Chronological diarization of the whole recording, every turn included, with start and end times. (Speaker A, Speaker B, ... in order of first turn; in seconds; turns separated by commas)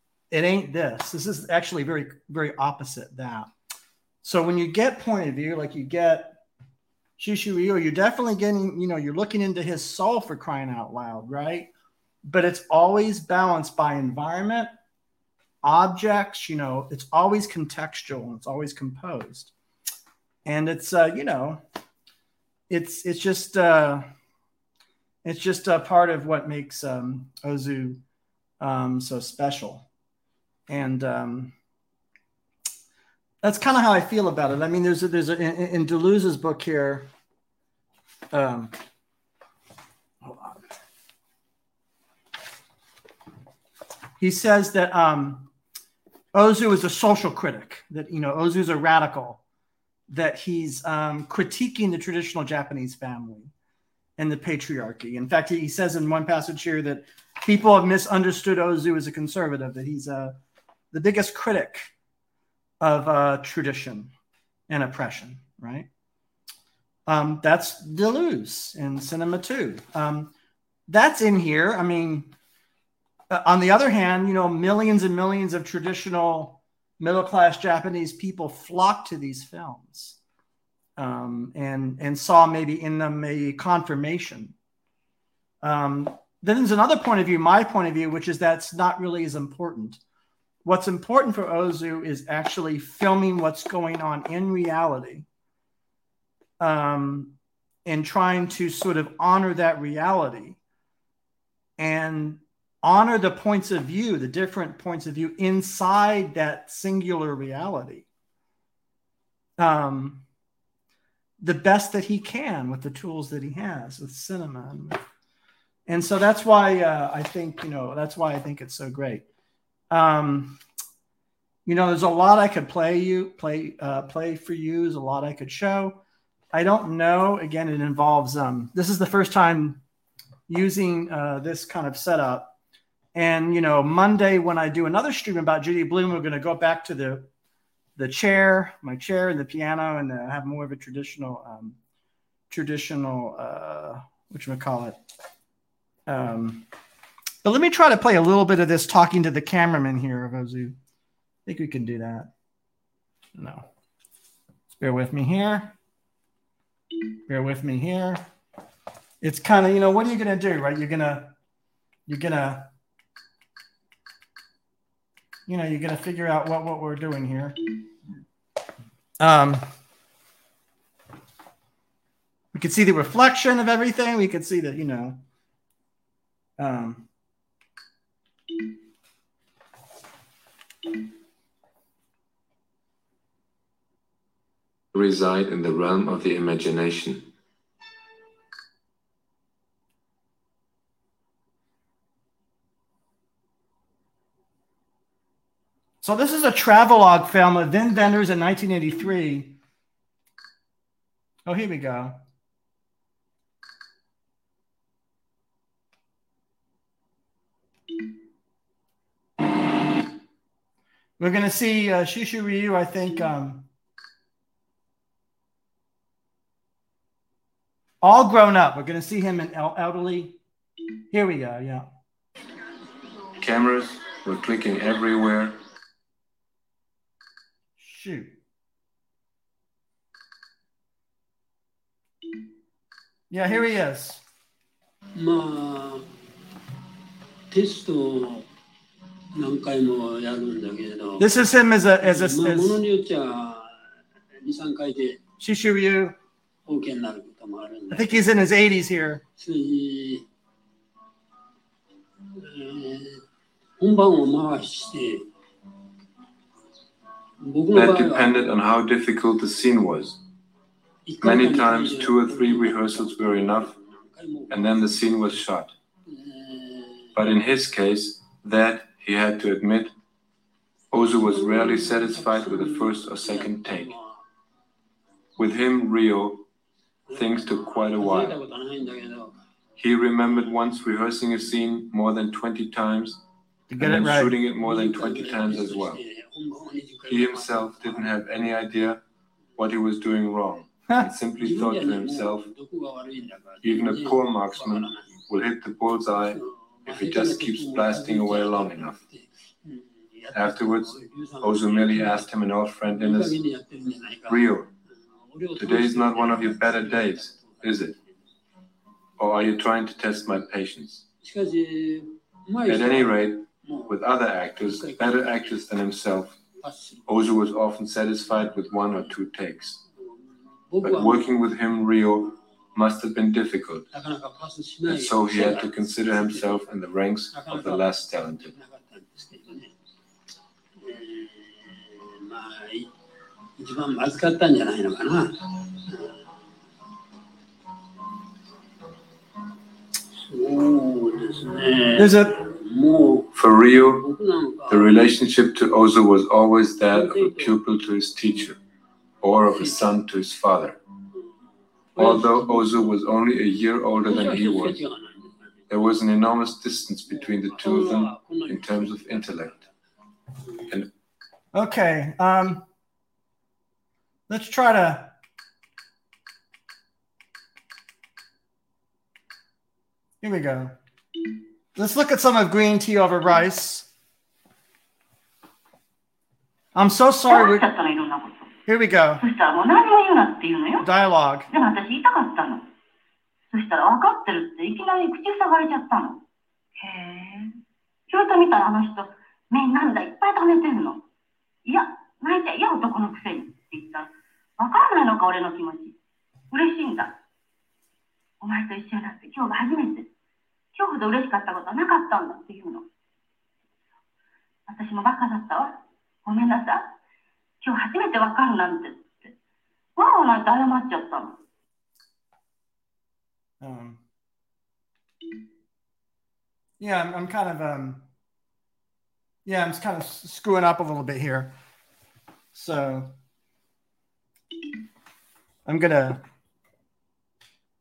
Speaker A: 0.3-3.5, Speaker A: 4.2-6.4, Speaker A: 7.2-11.7, Speaker A: 12.2-14.7, Speaker A: 15.6-19.5, Speaker A: 20.4-21.6, Speaker A: 22.7-24.1, Speaker A: 25.2-28.0, Speaker A: 28.6-29.9, Speaker A: 30.7-31.6, Speaker A: 33.4-37.1, Speaker A: 38.3-38.7, Speaker A: 40.2-40.6, Speaker A: 44.2-45.5, Speaker A: 46.3-49.4, Speaker A: 50.1-53.5, Speaker A: 54.2-60.4, Speaker A: 60.9-61.9, Speaker A: 62.8-64.1, Speaker A: 64.7-65.9, Speaker A: 67.1-70.3, Speaker A: 70.9-72.3, Speaker A: 73.3-80.2, Speaker A: 81.0-84.5, Speaker A: 85.6-90.0, Speaker A: 90.6-95.3, Speaker A: 96.6-97.3, Speaker A: 97.9-100.6, Speaker A: 101.8-108.1, Speaker A: 109.6-110.2, Speaker A: 111.4-115.0, Speaker A: 115.9-119.2, Speaker A: 119.9-120.6, Speaker A: 121.7-129.8, Speaker A: 130.5-132.5, Speaker A: 133.1-137.3, Speaker A: 138.0-141.8, Speaker A: 142.5-145.0, Speaker A: 146.1-146.7, Speaker A: 147.4-150.8, Speaker A: 151.4-152.3, Speaker A: 153.3-153.7, Speaker A: 154.7-155.8, Speaker A: 157.3-158.2, Speaker A: 159.2-161.3, Speaker A: 162.1-162.7, Speaker A: 165.5-167.6, Speaker A: 169.2-169.7, Speaker A: 172.5-175.2, Speaker A: 176.6-177.1, Speaker B: 184.9-187.3, Speaker A: 196.0-199.6, Speaker A: 201.4-202.2, Speaker A: 211.2-213.7, Speaker A: 218.0-220.4, Speaker A: 221.1-221.9, Speaker B: 223.4-225.6, Speaker A: 227.8-228.4, Speaker A: 233.3-234.2, Speaker C: 235.2-236.1, Speaker C: 237.5-238.5, Speaker C: 239.3-241.4, Speaker A: 241.2-242.8, Speaker C: 242.0-243.9, Speaker C: 244.4-245.2, Speaker A: 245.4-246.2, Speaker C: 246.7-248.3, Speaker A: 247.9-249.2, Speaker C: 249.4-250.2, Speaker C: 252.4-253.2, Speaker C: 253.8-255.3, Speaker C: 257.4-258.4, Speaker B: 257.7-260.2, Speaker C: 261.1-265.3, Speaker B: 261.2-263.7, Speaker B: 264.5-265.7, Speaker C: 266.1-267.1, Speaker B: 267.1-269.9, Speaker B: 270.9-273.9, Speaker C: 271.2-274.2, Speaker B: 275.4-276.4, Speaker C: 277.1-279.3, Speaker B: 277.1-278.4, Speaker B: 279.8-283.2, Speaker A: 283.7-284.4, Speaker B: 283.8-286.0, Speaker C: 284.6-288.2, Speaker B: 287.1-289.0, Speaker B: 289.6-292.5, Speaker C: 291.4-295.2, Speaker B: 293.6-299.0, Speaker C: 296.2-302.3, Speaker B: 300.3-303.4, Speaker C: 302.9-304.5, Speaker B: 304.3-304.7, Speaker C: 305.1-308.1, Speaker B: 305.6-307.9, Speaker B: 309.2-311.1, Speaker C: 311.2-314.0, Speaker B: 312.6-316.4, Speaker C: 314.6-315.6, Speaker C: 316.6-317.1, Speaker B: 317.1-319.8, Speaker C: 320.7-321.3, Speaker B: 320.8-323.9, Speaker C: 323.9-326.7, Speaker B: 324.9-328.5, Speaker C: 327.3-329.7, Speaker C: 330.8-332.9, Speaker C: 333.6-336.2, Speaker C: 340.3-343.4, Speaker A: 341.9-342.4, Speaker B: 343.3-344.1, Speaker C: 343.9-345.1, Speaker B: 344.7-348.6, Speaker C: 346.9-347.6, Speaker B: 349.2-350.8, Speaker C: 349.6-349.9, Speaker C: 351.9-352.7, Speaker B: 352.0-354.8, Speaker C: 354.1-355.6, Speaker B: 355.7-359.6, Speaker C: 357.1-359.7, Speaker C: 360.4-360.7, Speaker A: 361.5-362.6, Speaker A: 364.3-365.1, Speaker A: 370.2-370.7, Speaker A: 371.8-373.9, Speaker A: 376.7-377.6, Speaker D: 377.3-378.6, Speaker A: 378.7-379.2, Speaker D: 379.2-380.9, Speaker A: 380.8-381.5, Speaker D: 381.5-382.6, Speaker D: 383.5-386.2, Speaker D: 386.8-387.6, Speaker D: 388.1-391.0, Speaker D: 391.6-395.9, Speaker D: 396.5-397.1, Speaker D: 398.4-400.1, Speaker D: 400.7-402.9, Speaker D: 404.7-406.9, Speaker D: 407.6-409.3, Speaker D: 409.9-411.4, Speaker A: 413.6-414.0, Speaker A: 416.8-418.1, Speaker A: 419.4-421.6, Speaker A: 422.5-423.1, Speaker A: 425.6-426.2